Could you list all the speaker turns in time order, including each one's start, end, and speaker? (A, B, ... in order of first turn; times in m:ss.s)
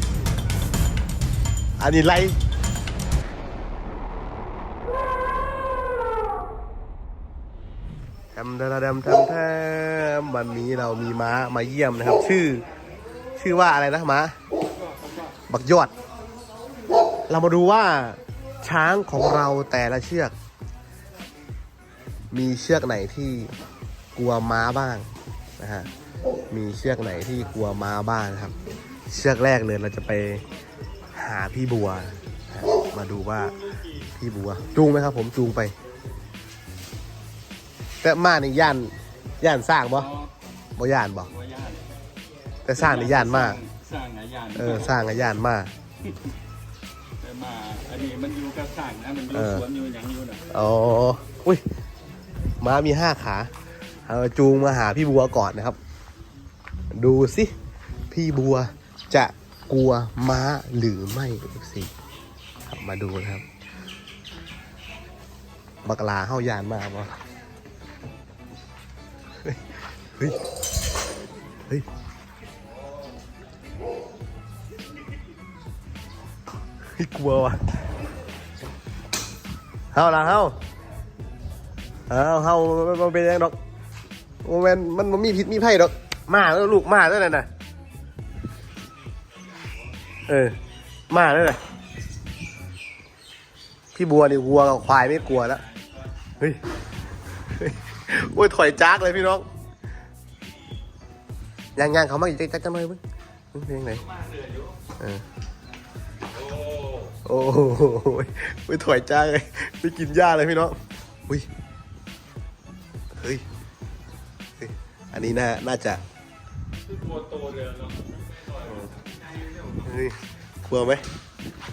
0:01.8-0:02.4 A
0:08.3-0:12.6 A
0:13.4-0:14.3 A
0:14.8-0:15.3 B
0:15.5-0:15.9 A
0:17.3-0:20.3 A
0:22.3-0:23.5 A
0:24.1-0:25.1 A
0:25.6-0:25.9 A
0:26.5-0:28.5 A
0:29.1-0:30.4 A
0:31.1-0:33.6 A
0:33.6-0:33.9 B
0:34.2-0:35.7 A
0:38.0-0:40.1 A
0:39.9-0:40.3 B
0:40.8-0:41.3 A
0:41.3-0:42.0 B
0:42.6-0:43.6 A
0:42.7-0:44.9 B
0:44.6-0:45.7 A
0:47.2-0:50.5 B
0:49.3-0:49.6 A
0:50.5-0:51.6 A
0:52.6-0:53.5 A
0:54.1-0:55.8 A
0:56.9-0:57.5 A
0:58.1-1:01.9 A
1:02.7-1:03.4 A
1:05.8-1:07.2 A
1:09.4-1:10.4 A
1:16.9-1:17.6 A
1:19.9-1:20.6 A
1:22.1-1:23.5 A
1:24.4-1:27.5 A
1:30.3-1:30.6 A
1:31.1-1:31.6 A
1:33.9-1:35.6 A
1:35.1-1:35.9 B
1:37.4-1:39.4 A
1:41.8-1:43.0 A
1:43.5-1:44.0 A
1:44.0-1:44.7 B
1:46.3-1:47.2 B
1:47.2-1:51.5 A
1:53.1-1:53.4 A
1:54.6-1:56.0 A
1:56.8-1:59.9 B
1:59.8-2:01.0 A